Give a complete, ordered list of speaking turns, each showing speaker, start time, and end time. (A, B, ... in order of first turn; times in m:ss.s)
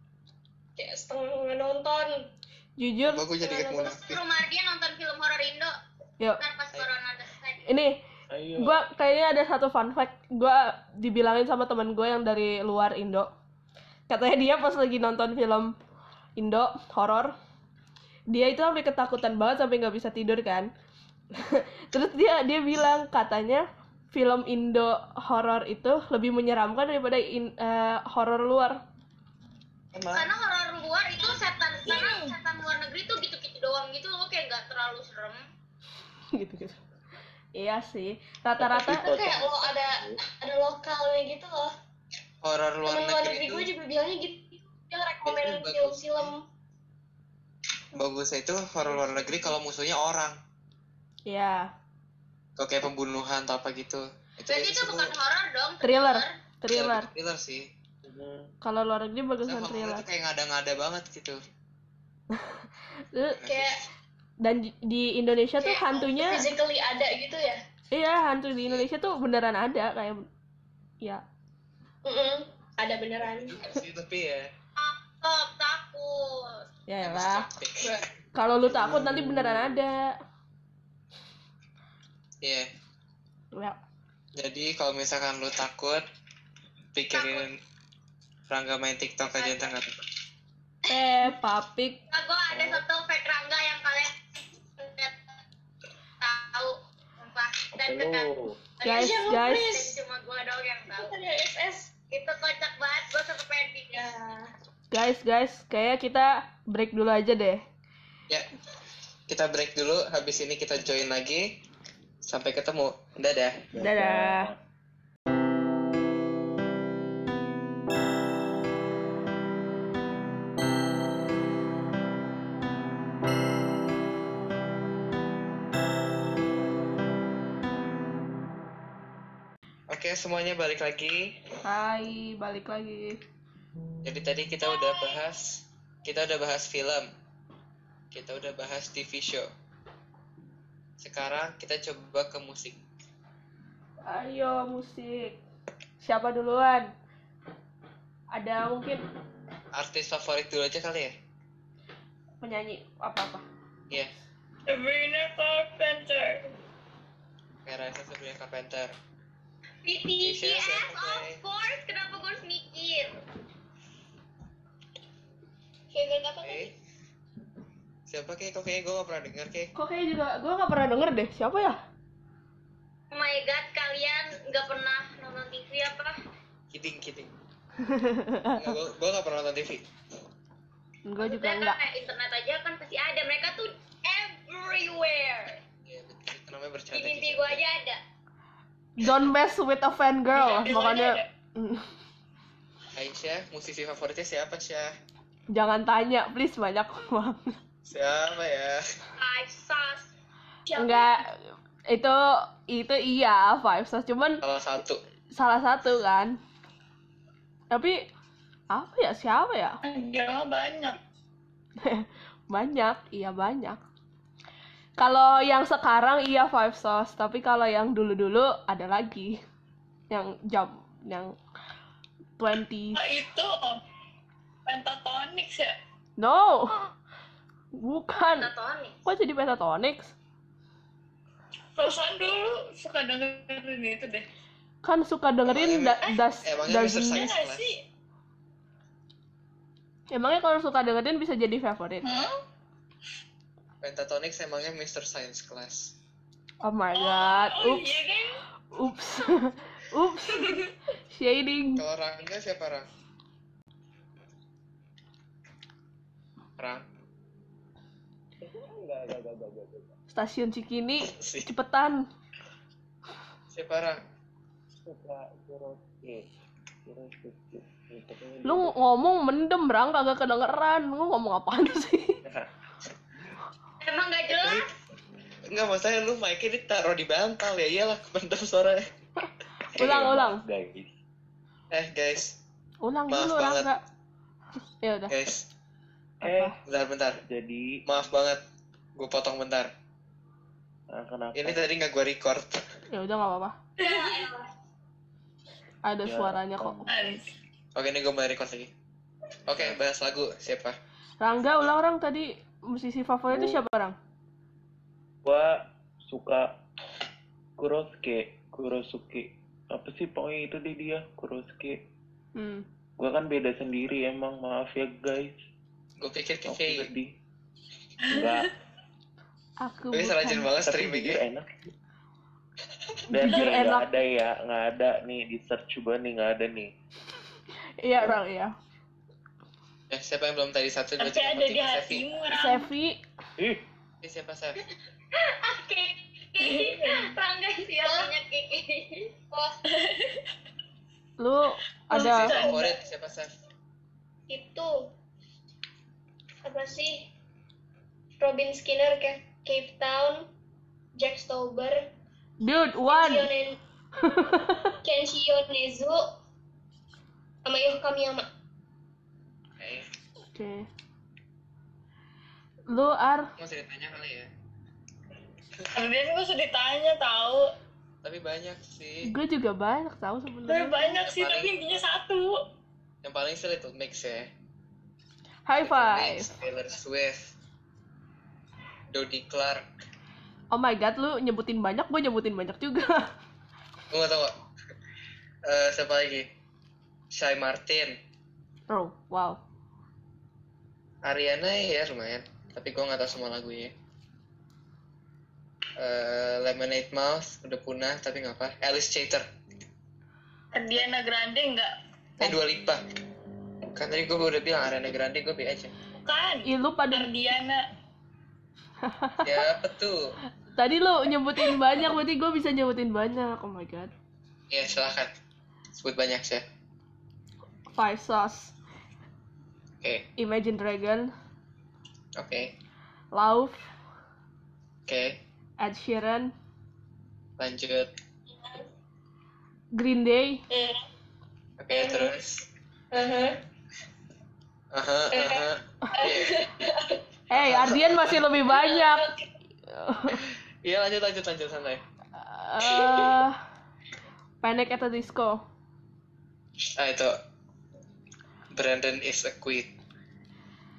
0:00.8-0:02.1 A
0:02.8-0:03.2 B
0:03.0-0:04.2 C
0:03.4-0:05.7 D
0:06.4-0:07.6 D
0:07.6-0:08.0 B
0:08.3-0:08.8 E
0:08.5-0:13.3 B
0:14.1-0:15.7 B
0:16.4-0:17.3 B
0:18.3-0:20.7 B
0:21.3-0:28.8 B
0:29.9-0:30.3 C
0:30.1-0:35.4 D
0:31.8-0:32.4 F
0:36.3-0:36.8 B
0:37.5-0:39.1 B
0:38.6-0:40.2 E
0:39.0-0:41.7 A
0:42.4-0:43.7 C
0:42.9-0:46.4 A
0:45.2-0:46.3 C
0:48.0-0:50.4 C
0:51.3-0:51.7 B
0:52.6-0:55.2 C
0:54.5-0:56.3 D
0:55.8-0:57.1 B
0:56.7-0:57.7 C
0:58.0-0:58.5 E
0:58.6-1:00.0 B
0:59.4-1:01.4 C
1:02.3-1:02.6 B
1:03.1-1:03.4 B
1:03.4-1:03.8 C
1:03.4-1:03.8 A
1:04.4-1:06.5 B
1:05.6-1:07.6 A
1:07.9-1:10.2 B
1:12.0-1:13.6 A
1:13.2-1:14.5 C
1:14.8-1:16.6 D
1:16.9-1:17.5 B
1:17.0-1:18.0 C
1:18.3-1:20.1 B
1:18.7-1:19.8 E
1:22.4-1:22.7 C
1:24.4-1:26.0 C
1:26.9-1:27.5 C
1:27.1-1:27.4 D
1:28.5-1:30.0 C
1:29.4-1:29.7 D
1:30.9-1:32.0 B
1:32.1-1:34.2 D
1:32.5-1:32.8 E
1:34.8-1:35.2 D
1:36.2-1:41.1 D
1:37.8-1:38.6 E
1:38.8-1:39.7 B
1:38.8-1:40.0 A
1:40.9-1:41.9 A
1:42.1-1:44.1 D
1:43.9-1:44.5 A
1:44.9-1:47.6 B
1:49.3-1:51.5 C
1:52.2-1:53.6 C
1:53.7-1:54.6 E
1:53.8-1:54.5 B
2:09.9-2:11.3 C
2:11.6-2:13.2 B
2:14.0-2:17.1 C
2:14.6-2:15.2 D
2:18.1-2:19.5 C
2:21.0-2:22.8 C
2:24.0-2:25.4 B
2:26.0-2:26.9 B
2:28.3-2:29.0 B
2:29.7-2:31.1 C
2:32.4-2:33.4 B
2:34.7-2:36.5 F
2:37.6-2:38.9 C
2:39.8-2:43.2 D
2:40.2-2:41.4 C
2:45.9-2:46.7 A
2:46.4-2:46.7 C
2:48.1-2:49.7 C
2:49.7-2:51.8 B
2:53.1-2:56.2 D
2:56.7-2:57.3 C
2:57.8-2:58.6 B
2:58.5-2:59.9 C
3:01.0-3:01.8 B
3:01.2-3:05.6 D
3:05.8-3:07.6 C
3:06.9-3:08.0 D
3:09.0-3:11.9 B
3:10.3-3:11.3 F
3:12.9-3:14.9 C
3:15.5-3:17.5 B
3:17.8-3:18.8 C
3:19.2-3:20.1 D
3:20.7-3:21.2 F
3:20.8-3:24.4 B
3:24.4-3:25.0 C
3:25.3-3:26.4 B
3:27.7-3:28.0 B
3:28.7-3:29.8 B
3:29.8-3:31.0 F
3:31.8-3:33.8 B
3:35.0-3:39.4 B
3:40.1-3:41.3 B
3:42.4-3:43.0 B
3:42.9-3:43.8 F
3:44.6-3:45.7 F
3:46.2-3:46.9 B
3:47.8-3:48.5 B
3:48.3-3:49.0 D
3:49.0-3:50.1 B
3:51.8-3:54.2 F
3:54.8-3:57.2 B
3:55.4-3:57.7 C
3:57.0-3:57.8 F
4:00.1-4:02.1 B
4:02.0-4:02.4 F
4:03.8-4:05.9 C
4:06.6-4:07.9 B
4:06.9-4:08.4 F
4:08.7-4:10.6 B
4:10.3-4:10.7 F
4:11.1-4:11.8 B
4:11.8-4:12.9 C
4:16.6-4:16.8 C
4:18.4-4:19.9 E
4:20.1-4:22.0 B
4:21.0-4:21.5 C
4:23.5-4:24.0 C
4:24.8-4:26.2 E
4:26.9-4:28.7 E
4:28.4-4:32.2 B
4:33.8-4:34.7 D
4:34.3-4:34.6 C
4:35.5-4:38.9 C
4:39.7-4:40.4 B
4:39.7-4:40.9 E
4:41.7-4:42.4 C
4:42.8-4:43.8 B
4:43.1-4:43.7 C
4:44.8-4:45.1 B
4:45.1-4:45.5 C
4:46.2-4:46.6 B
4:46.2-4:46.6 E
4:46.6-4:47.2 C
4:47.3-4:47.8 E
4:47.8-4:48.4 C
4:49.0-4:49.7 C
4:50.9-4:51.6 E
4:51.3-4:52.6 C
4:52.9-4:53.6 B
4:53.8-4:54.3 F
4:53.8-4:54.1 A
4:55.8-4:56.9 B
4:56.0-4:56.9 E
4:56.8-4:57.3 F
4:57.7-4:58.7 C
4:59.5-5:00.8 C
5:01.2-5:03.9 B
5:03.3-5:03.6 E
5:05.2-5:06.6 E
5:07.6-5:11.9 E
5:12.3-5:12.6 B
5:13.0-5:15.4 E
5:16.0-5:16.9 C
5:16.4-5:17.1 E
5:18.0-5:18.4 F
5:18.1-5:18.5 E
5:19.6-5:20.5 B
5:19.9-5:21.2 C
5:20.6-5:21.7 E
5:23.1-5:26.7 E
5:23.1-5:23.9 B
5:23.3-5:23.5 F
5:27.8-5:28.5 B
5:29.9-5:32.1 C
5:31.0-5:32.7 F
5:32.3-5:33.0 B
5:33.4-5:33.6 E
5:34.0-5:34.6 C
5:35.1-5:39.1 D
5:36.4-5:37.1 F
5:37.8-5:38.1 A
5:39.8-5:40.2 F
5:41.2-5:42.3 B
5:41.9-5:42.7 F
5:42.0-5:43.3 C
5:44.3-5:44.9 A
5:46.4-5:47.1 A
5:48.2-5:50.3 A
5:50.9-5:51.9 A
5:52.4-5:53.3 B
5:52.9-5:53.6 A
5:54.0-5:54.7 B
5:54.8-5:56.0 A
5:57.4-5:58.3 A
5:59.6-5:59.9 C
6:00.3-6:00.7 B
6:02.7-6:03.3 B
6:03.4-6:04.3 C
6:05.7-6:07.5 F
6:08.0-6:09.1 C
6:09.0-6:11.0 B
6:10.5-6:12.4 F
6:11.0-6:11.5 C
6:13.0-6:14.3 C
6:15.4-6:16.3 B
6:15.6-6:17.3 C
6:18.9-6:19.6 C
6:20.5-6:23.1 B
6:23.9-6:24.4 C
6:25.4-6:26.3 C
6:27.1-6:27.9 C
6:28.7-6:29.4 B
6:31.0-6:33.7 C
6:35.8-6:39.3 C
6:40.5-6:41.7 F
6:42.2-6:42.8 C
6:43.7-6:45.7 C
6:46.0-6:47.6 F
6:46.4-6:47.1 B
6:48.8-6:49.2 B
6:49.2-6:50.0 C
6:50.5-6:53.9 B
6:54.5-6:55.1 C
6:55.7-6:56.4 C
6:57.7-6:58.5 B
7:00.2-7:01.1 B
7:02.2-7:02.5 C
7:03.1-7:03.6 B
7:04.9-7:05.2 C
7:05.6-7:06.3 B
7:07.4-7:07.9 C
7:08.3-7:08.7 A
7:09.7-7:10.4 B
7:10.5-7:10.8 A
7:11.6-7:12.5 C
7:11.7-7:12.1 A
7:12.9-7:13.4 A
7:14.7-7:16.4 C
7:15.1-7:17.0 A
7:17.3-7:19.1 B
7:17.3-7:18.2 C
7:18.5-7:19.2 A
7:19.7-7:20.2 B
7:20.6-7:21.8 C
7:22.2-7:23.4 B
7:22.6-7:23.1 A
7:24.4-7:25.4 B
7:26.8-7:27.1 C
7:28.5-7:29.7 C